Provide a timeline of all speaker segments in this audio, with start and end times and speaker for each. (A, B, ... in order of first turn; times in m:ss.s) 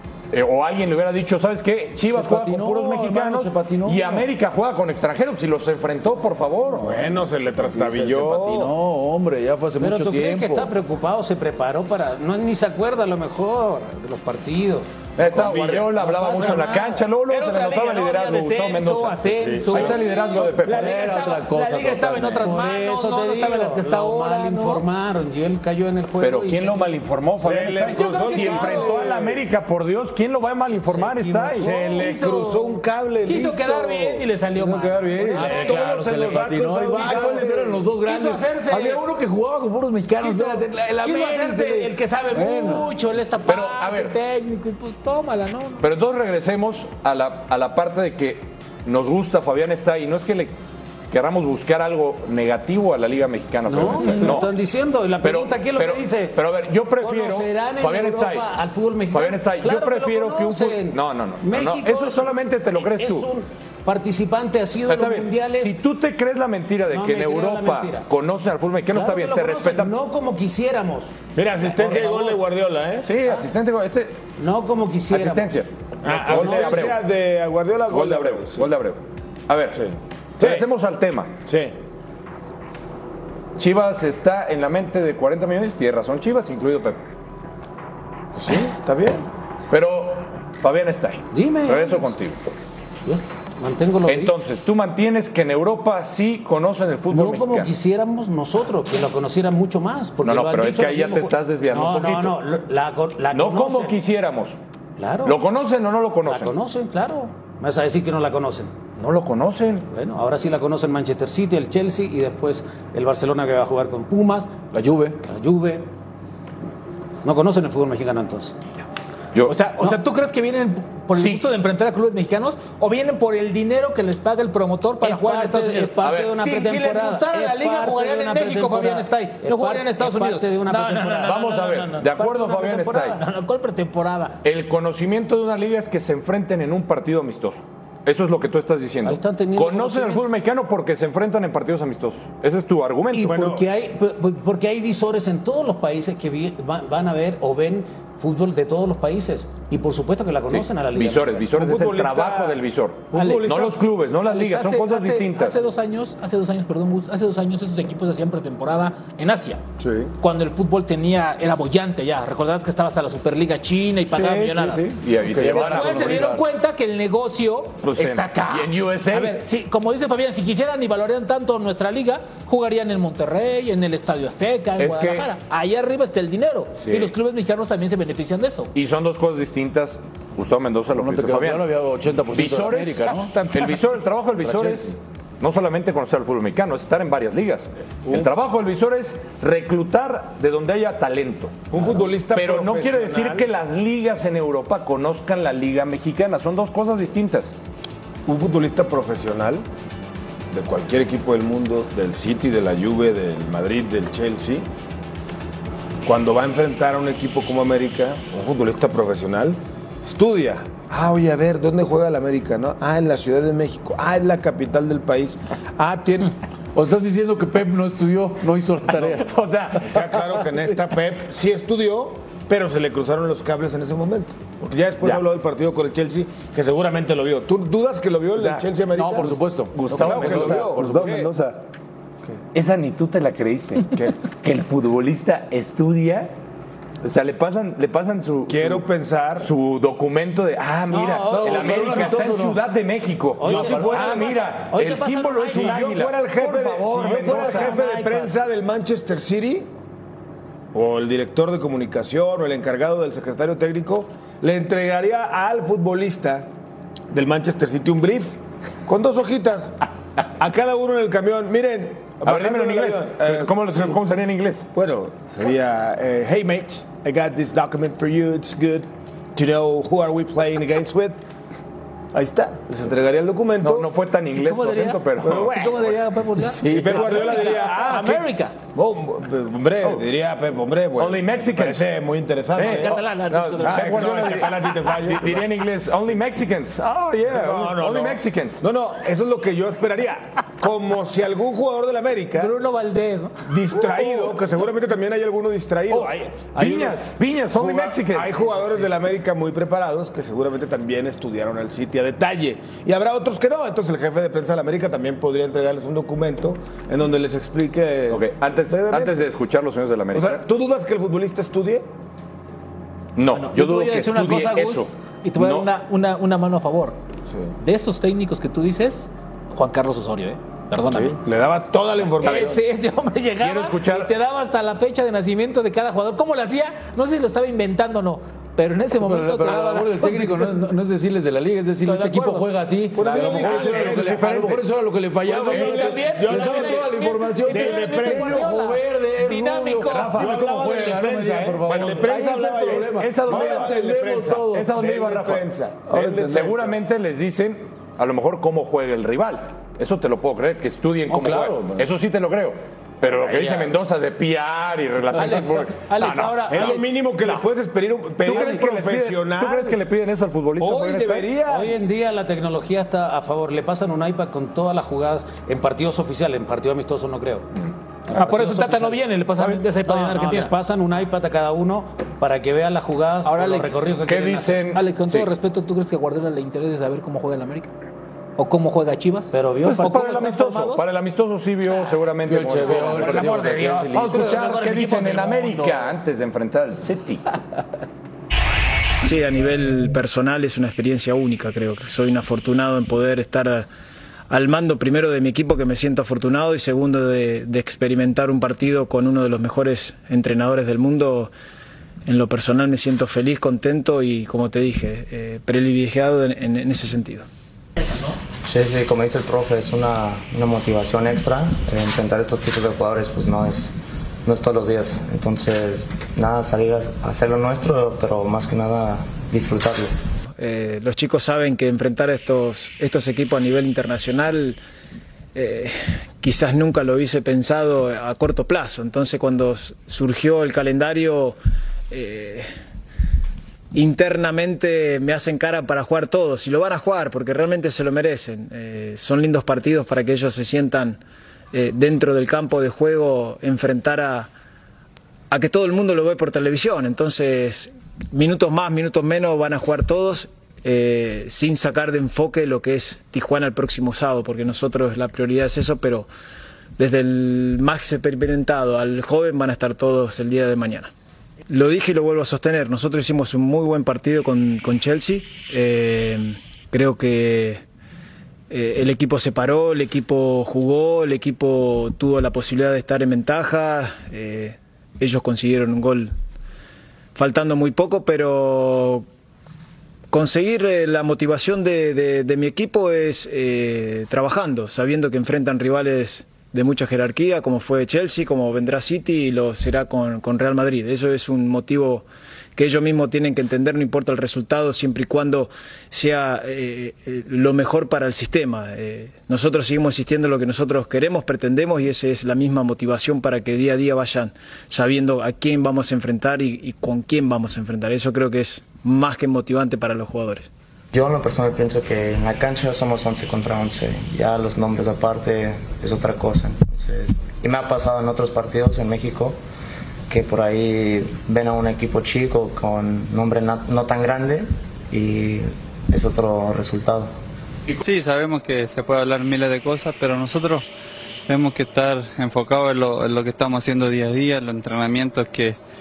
0:00.3-0:07.0 A
0:02.1-0:04.3 B
0:06.8-0:08.8 C
0:07.7-0:10.7 B
0:09.8-0:17.0 D
0:15.2-0:21.0 A
0:17.3-0:24.9 E
0:20.5-0:22.6 B
0:22.4-0:26.9 D
0:26.2-0:31.7 A
0:27.4-0:29.4 C
0:27.9-0:29.1 E
0:28.5-0:28.7 D
0:30.7-0:31.8 D
0:31.6-0:34.2 C
0:31.6-0:35.8 E
0:34.6-0:42.9 B
0:35.4-0:37.8 C
0:36.9-0:37.5 E
0:38.0-0:39.0 E
0:40.2-0:45.9 E
0:43.4-0:44.2 A
0:45.8-0:50.5 A
0:51.1-0:54.5 A
0:53.7-0:56.4 D
0:54.0-0:54.5 E
0:55.2-0:58.5 A
0:57.0-1:05.8 D
0:59.1-1:03.3 A
1:04.9-1:09.9 A
1:06.9-1:08.1 D
1:08.9-1:12.4 D
1:11.4-1:13.1 C
1:13.0-1:14.2 A
1:14.4-1:15.6 D
1:15.1-1:17.0 A
1:16.0-1:18.7 C
1:16.3-1:16.9 D
1:17.9-1:19.8 A
1:19.8-1:20.6 C
1:20.4-1:21.3 A
1:21.4-1:21.8 C
1:23.6-1:27.0 A
1:28.4-1:29.3 C
1:29.7-1:32.5 A
1:31.3-1:32.1 D
1:33.0-1:34.4 D
1:34.1-1:37.7 A
1:37.1-1:44.0 D
1:40.2-1:42.4 A
1:43.3-1:44.6 A
1:45.0-1:45.4 D
1:45.2-1:46.6 A
1:46.3-1:48.7 D
1:49.0-1:49.9 A
1:49.9-1:54.6 D
1:54.7-1:55.2 B
1:55.2-1:55.9 D
1:57.2-1:58.6 D
1:59.5-2:11.8 E
2:05.0-2:13.2 D
2:06.0-2:06.4 A
2:11.2-2:13.2 A
2:13.1-2:14.4 E
2:14.4-2:23.4 A
2:19.0-2:20.2 D
2:23.1-2:31.7 D
2:23.2-2:23.6 C
2:30.5-2:35.6 A
2:31.5-2:33.8 C
2:33.1-2:33.7 E
2:34.2-2:39.6 E
2:39.8-2:40.1 C
2:40.2-2:44.9 E
2:44.1-2:46.3 A
2:45.2-2:46.4 B
2:45.4-2:58.7 E
2:47.8-2:49.4 A
2:54.8-2:55.3 A
2:56.8-2:57.1 A
2:58.7-3:01.7 A
3:00.9-3:03.3 B
3:02.3-3:11.7 A
3:03.1-3:03.8 E
3:04.4-3:05.0 B
3:11.7-3:13.4 C
3:12.3-3:17.5 A
3:18.3-3:19.6 C
3:20.5-3:24.7 C
3:26.0-3:36.4 C
3:36.8-3:39.3 B
3:39.0-3:40.1 A
3:39.8-3:49.4 C
3:48.4-3:48.6 A
3:48.9-3:51.6 B
3:49.2-3:51.4 A
3:49.9-3:51.3 C
3:52.5-3:56.3 A
3:57.0-3:58.9 A
3:58.5-3:59.5 C
3:59.4-4:07.9 A
4:00.9-4:02.1 D
4:01.3-4:02.6 B
4:03.4-4:05.9 D
4:03.4-4:04.7 C
4:05.4-4:09.7 C
4:07.0-4:08.3 D
4:10.7-4:16.5 C
4:17.1-4:19.8 C
4:20.4-4:24.0 C
4:22.2-4:24.7 A
4:24.7-4:31.2 C
4:32.1-4:33.9 C
4:33.6-4:35.9 A
4:34.4-4:38.6 E
4:35.2-4:36.0 C
4:36.5-4:37.5 B
4:36.6-4:43.0 C
4:41.0-4:41.9 A
4:42.5-4:48.6 A
4:42.7-4:44.6 E
4:43.6-4:45.5 C
4:47.3-4:52.5 C
4:52.4-4:53.4 E
4:53.5-5:09.2 C
4:53.7-4:54.4 A
4:55.9-4:58.5 A
5:08.1-5:10.4 A
5:10.1-5:11.9 C
5:13.2-5:15.7 A
5:13.3-5:17.0 E
5:17.6-5:21.2 E
5:20.8-5:22.6 C
5:22.2-5:30.6 E
5:22.2-5:22.5 A
5:23.4-5:24.1 A
5:29.0-5:44.7 B
5:31.8-5:33.9 E
5:33.0-5:34.4 C
5:33.1-5:34.6 A
5:35.3-5:40.3 E
5:35.4-5:38.6 C
5:39.9-5:40.5 A
5:40.2-5:46.7 C
5:41.7-5:42.1 A
5:42.6-5:43.8 A
5:44.5-5:56.8 A
5:45.9-5:46.6 B
5:51.1-5:51.9 B
5:53.2-5:53.7 B
5:55.2-5:57.4 E
5:56.5-5:59.8 C
5:58.2-6:01.3 A
5:58.3-5:58.6 E
6:00.6-6:01.8 C
6:01.5-6:07.5 D
6:08.1-6:09.0 D
6:08.1-6:10.5 E
6:09.8-6:14.7 D
6:13.2-6:14.0 E
6:14.0-6:15.3 A
6:14.7-6:17.7 E
6:18.4-6:20.8 E
6:19.3-6:20.0 D
6:19.6-6:27.3 A
6:22.2-6:24.6 B
6:22.6-6:25.9 E
6:29.0-6:33.7 F
6:34.3-6:41.3 F
6:42.1-6:47.3 F
6:48.4-6:59.9 G
7:00.4-7:04.6 F
7:05.4-7:11.4 F
7:11.9-7:12.5 F
7:13.7-7:21.0 F
7:21.5-7:24.3 F
7:25.3-7:36.1 F
7:36.8-7:40.9 F
7:41.5-7:47.6 F
7:48.5-7:56.1 F
7:57.2-7:59.1 F
8:00.1-8:30.5 F
8:30.9-8:39.4 G
8:40.1-8:47.1 G
8:47.8-8:50.6 H
8:51.3-8:55.6 H